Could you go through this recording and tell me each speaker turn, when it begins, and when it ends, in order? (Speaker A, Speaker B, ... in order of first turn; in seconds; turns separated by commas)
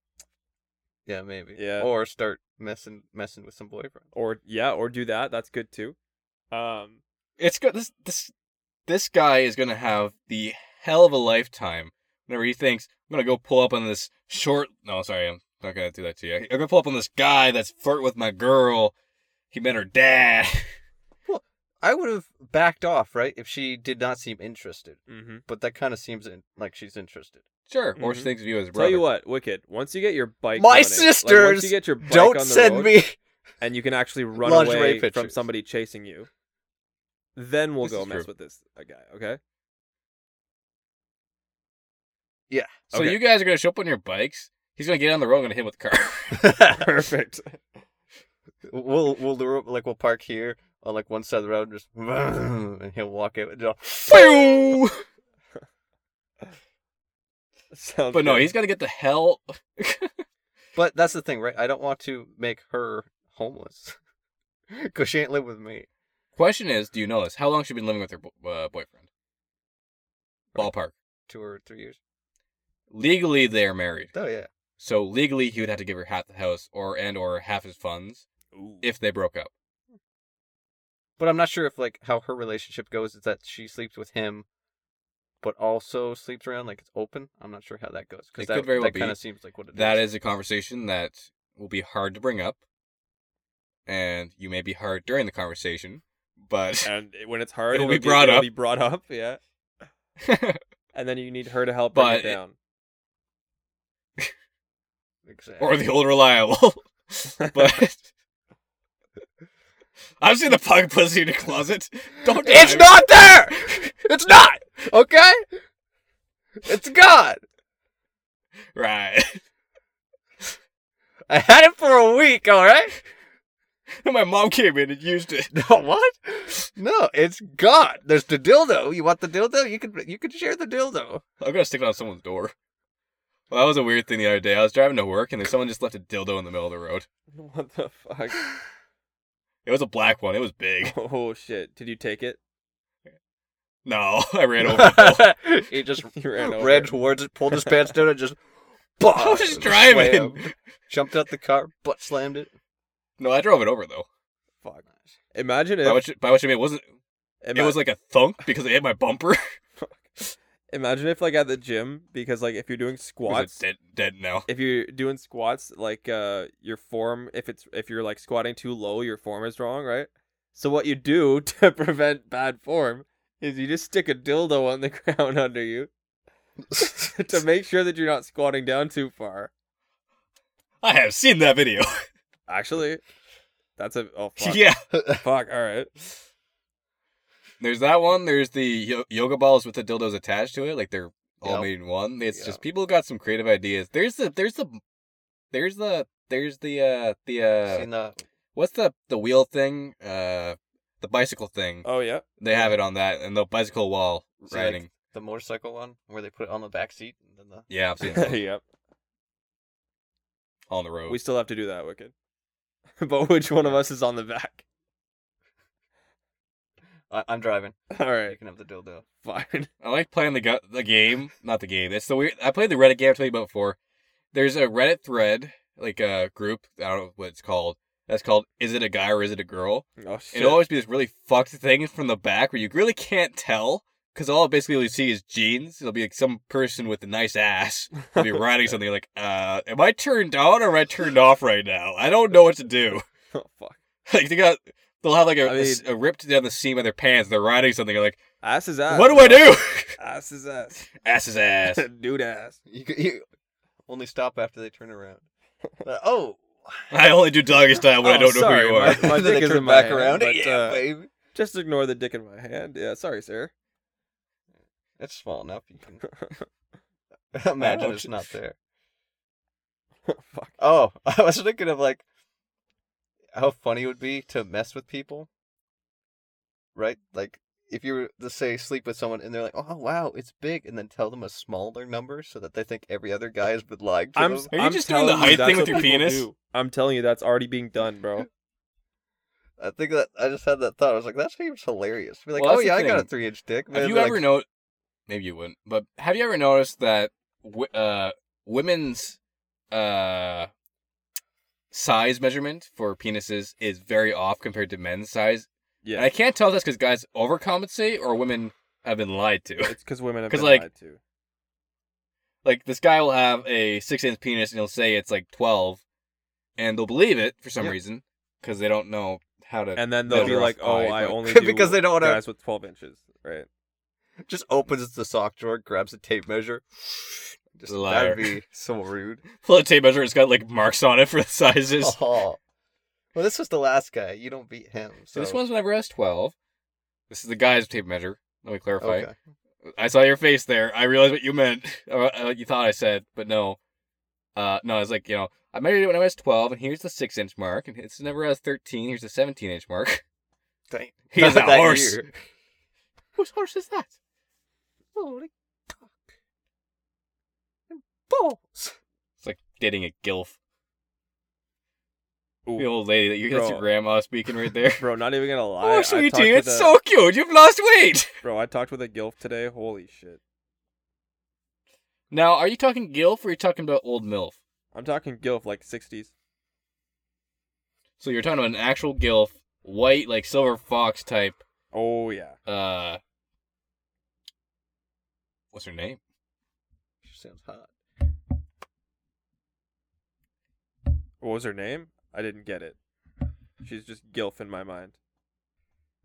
Speaker A: 1.1-4.0, Speaker B: 1.6-1.9, Speaker B: 4.1-6.0, Speaker B: 6.5-7.0, Speaker C: 7.4-8.3, Speaker C: 8.9-18.9, Speaker C: 19.5-20.7, Speaker A: 21.2-27.4, Speaker B: 25.1-25.4, Speaker C: 27.7-29.1, Speaker B: 28.0-32.9, Speaker A: 30.6-33.2, Speaker B: 33.6-36.3, Speaker A: 34.4-35.4, Speaker B: 37.4-39.4, Speaker C: 37.8-38.3, Speaker A: 42.5-42.8, Speaker C: 42.9-46.5, Speaker B: 42.9-43.2, Speaker A: 46.3-46.9, Speaker B: 46.7-47.6, Speaker A: 48.6-54.7, Speaker C: 54.1-55.0, Speaker B: 57.7-58.5, Speaker C: 58.1-60.2, Speaker A: 60.7-64.0, Speaker A: 64.7-65.9, Speaker C: 66.3-69.0, Speaker C: 70.5-70.9, Speaker A: 71.3-72.0, Speaker C: 72.9-74.1, Speaker A: 74.1-74.5, Speaker C: 74.8-78.3, Speaker B: 78.5-78.8, Speaker C: 78.8-79.5, Speaker A: 81.2-84.5, Speaker A: 85.4-90.1, Speaker C: 88.4-89.2, Speaker C: 89.7-92.6, Speaker C: 93.8-96.9, Speaker B: 96.8-99.4, Speaker C: 97.7-98.5, Speaker C: 100.2-100.6, Speaker B: 100.9-102.5, Speaker C: 101.9-102.4, Speaker A: 105.2-105.8, Speaker C: 105.6-108.0, Speaker C: 110.2-113.9, Speaker A: 112.3-115.6, Speaker A: 116.6-117.4, Speaker C: 118.7-119.4, Speaker A: 121.3-123.0, Speaker C: 124.0-125.6, Speaker A: 125.5-131.2, Speaker C: 131.4-132.5, Speaker C: 133.5-137.1, Speaker B: 137.3-138.4, Speaker C: 139.7-140.9, Speaker B: 140.8-142.4, Speaker C: 143.8-145.3, Speaker A: 144.6-148.4, Speaker B: 146.0-146.9, Speaker A: 149.0-152.5, Speaker C: 149.1-150.5, Speaker C: 153.2-154.1, Speaker B: 154.6-156.0, Speaker C: 155.8-156.8, Speaker B: 157.4-157.8, Speaker C: 157.5-159.5, Speaker B: 159.8-160.1, Speaker B: 160.7-163.6, Speaker C: 163.3-164.5, Speaker B: 164.5-175.9, Speaker B: 176.7-179.5, Speaker A: 176.8-177.1, Speaker C: 180.8-182.1, Speaker B: 182.5-183.0, Speaker B: 183.8-184.7, Speaker C: 184.4-184.8, Speaker A: 184.9-185.2, Speaker B: 185.2-185.9, Speaker C: 187.6-194.8, Speaker A: 191.4-191.7, Speaker C: 195.5-197.9, Speaker A: 197.7-198.2, Speaker C: 198.5-201.8, Speaker B: 201.8-202.2, Speaker C: 202.4-204.9, Speaker A: 204.4-208.3, Speaker C: 207.7-208.4, Speaker B: 208.0-208.6, Speaker C: 210.7-211.2, Speaker B: 211.1-212.1, Speaker B: 213.0-214.6, Speaker A: 217.1-219.0, Speaker B: 217.9-218.4, Speaker B: 219.2-219.7, Speaker C: 219.8-223.8, Speaker C: 224.3-243.0, Speaker B: 230.0-230.6, Speaker B: 238.1-238.7, Speaker B: 243.3-243.8, Speaker C: 244.1-248.2, Speaker B: 245.4-245.8, Speaker B: 248.4-250.9, Speaker C: 248.9-249.9, Speaker C: 251.0-251.8, Speaker B: 251.7-252.6, Speaker A: 252.7-253.2, Speaker A: 253.8-255.2, Speaker A: 255.8-256.9, Speaker C: 256.9-259.2, Speaker B: 258.0-263.5, Speaker A: 259.0-261.1, Speaker A: 265.0-266.1, Speaker B: 266.0-266.5, Speaker A: 267.3-268.6, Speaker C: 267.6-268.1, Speaker B: 270.1-270.6, Speaker A: 270.6-272.0, Speaker A: 273.3-275.3, Speaker A: 276.7-284.5, Speaker B: 284.1-288.3, Speaker C: 284.5-286.3, Speaker A: 285.5-285.8, Speaker A: 289.6-294.2, Speaker C: 292.3-293.1, Speaker C: 293.7-294.4, Speaker C: 295.1-299.2, Speaker C: 299.7-300.5, Speaker C: 301.7-309.8, Speaker B: 305.8-306.1, Speaker B: 309.7-311.0, Speaker C: 310.3-310.6, Speaker C: 312.4-315.8, Speaker C: 316.6-321.2, Speaker B: 319.8-323.5, Speaker A: 320.1-320.4, Speaker A: 321.2-322.2, Speaker A: 324.2-329.2, Speaker C: 327.7-328.3, Speaker C: 329.3-332.0, Speaker A: 331.8-332.4, Speaker A: 333.1-335.4, Speaker C: 335.1-336.3, Speaker C: 337.1-339.1, Speaker A: 338.8-339.1, Speaker C: 339.6-343.6, Speaker C: 344.4-350.0, Speaker A: 350.7-352.1, Speaker C: 351.1-352.0, Speaker C: 353.1-353.9, Speaker A: 354.9-356.1, Speaker A: 357.7-358.8, Speaker C: 359.2-360.4, Speaker C: 362.6-364.8, Speaker B: 363.3-363.6, Speaker B: 364.8-366.7, Speaker C: 365.6-368.1, Speaker B: 368.2-370.2, Speaker C: 372.1-374.4, Speaker B: 374.7-376.1, Speaker C: 378.0-381.4, Speaker B: 381.7-382.4, Speaker C: 382.5-383.0, Speaker C: 385.5-386.0, Speaker A: 387.0-387.7, Speaker B: 391.2-392.8, Speaker B: 393.6-395.0